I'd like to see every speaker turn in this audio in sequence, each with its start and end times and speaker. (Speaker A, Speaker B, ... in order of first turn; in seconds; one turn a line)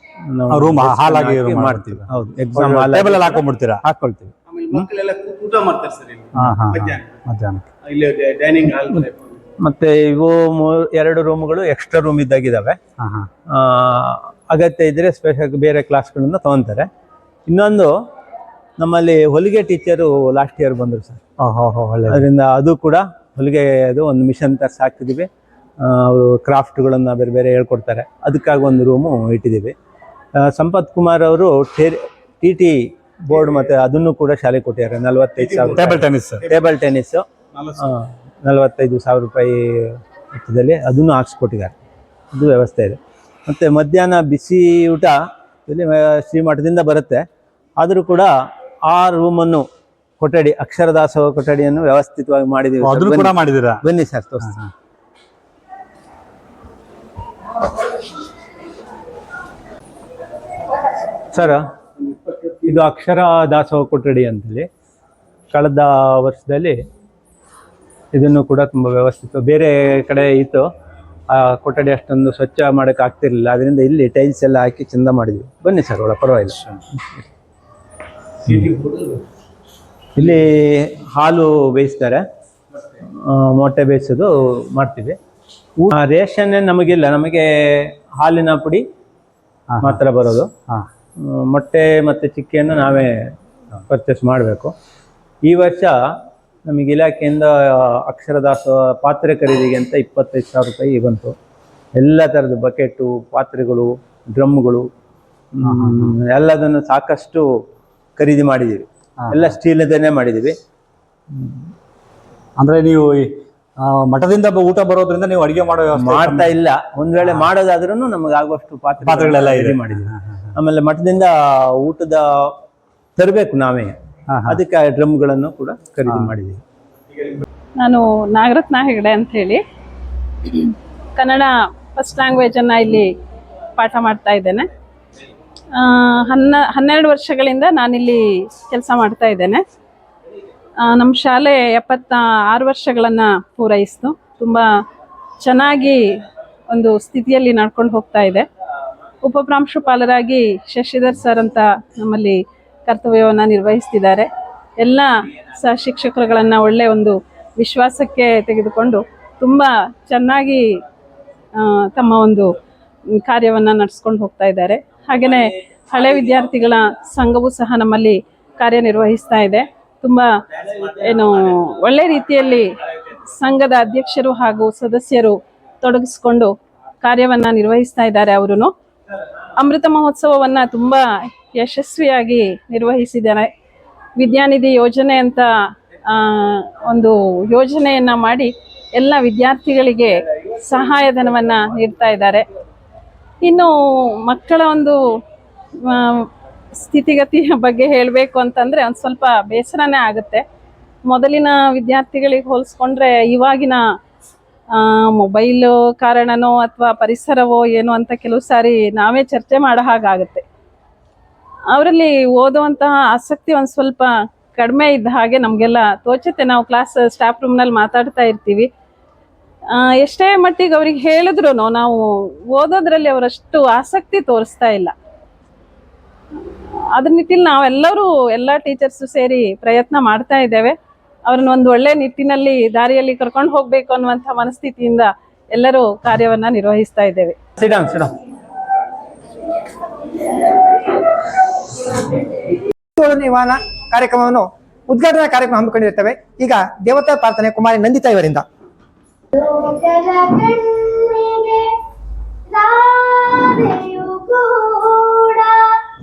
Speaker A: 0.3-4.9
Speaker B: 0.5-3.8
Speaker C: 4.5-7.1
Speaker B: 6.4-7.7
Speaker C: 7.8-9.4
Speaker A: 9.6-12.8
Speaker B: 13.0-13.3
Speaker A: 13.5-16.9
Speaker A: 17.5-17.9
Speaker A: 18.8-21.2
Speaker B: 21.4-22.2
Speaker A: 22.1-25.3
Speaker A: 25.8-29.7
Speaker A: 30.4-37.3
Speaker C: 33.3-33.7
Speaker C: 35.4-36.5
Speaker B: 35.7-36.5
Speaker C: 37.5-37.9
Speaker A: 37.8-41.8
Speaker A: 42.3-47.3
Speaker A: 47.8-48.3
Speaker A: 48.9-49.7
Speaker A: 50.2-54.6
Speaker B: 52.8-53.8
Speaker B: 54.4-54.7
Speaker A: 61.3-61.7
Speaker C: 62.1-62.7
Speaker A: 62.6-64.7
Speaker A: 65.5-66.8
Speaker A: 68.1-70.7
Speaker A: 71.3-76.6
Speaker C: 78.5-79.2
Speaker A: 80.2-82.2
Speaker A: 83.1-85.2
Speaker A: 85.8-88.8
Speaker B: 89.7-90.0
Speaker A: 89.8-90.5
Speaker A: 91.2-93.3
Speaker A: 93.9-94.7
Speaker A: 95.5-101.3
Speaker A: 102.0-104.9
Speaker A: 105.5-107.5
Speaker B: 105.6-106.2
Speaker A: 108.2-110.6
Speaker B: 109.2-109.6
Speaker B: 112.6-116.6
Speaker A: 116.0-122.5
Speaker B: 119.0-120.4
Speaker A: 123.2-126.6
Speaker B: 124.3-124.6
Speaker D: 127.8-129.6
Speaker D: 130.4-133.1
Speaker D: 133.8-134.7
Speaker D: 135.7-139.6
Speaker D: 140.8-144.7
Speaker D: 145.4-148.5
Speaker D: 149.2-154.3
Speaker D: 154.8-160.8
Speaker D: 161.5-162.6
Speaker D: 163.1-178.7
Speaker D: 179.6-183.5
Speaker D: 184.2-192.4
Speaker D: 193.4-195.2
Speaker D: 195.8-200.4
Speaker D: 201.1-203.8
Speaker D: 204.7-210.4
Speaker D: 211.7-218.7
Speaker D: 219.7-224.9
Speaker D: 226.9-237.4
Speaker A: 237.6-238.1
Speaker E: 243.0-248.4
Speaker F: 249.3-251.8
Speaker F: 252.5-255.8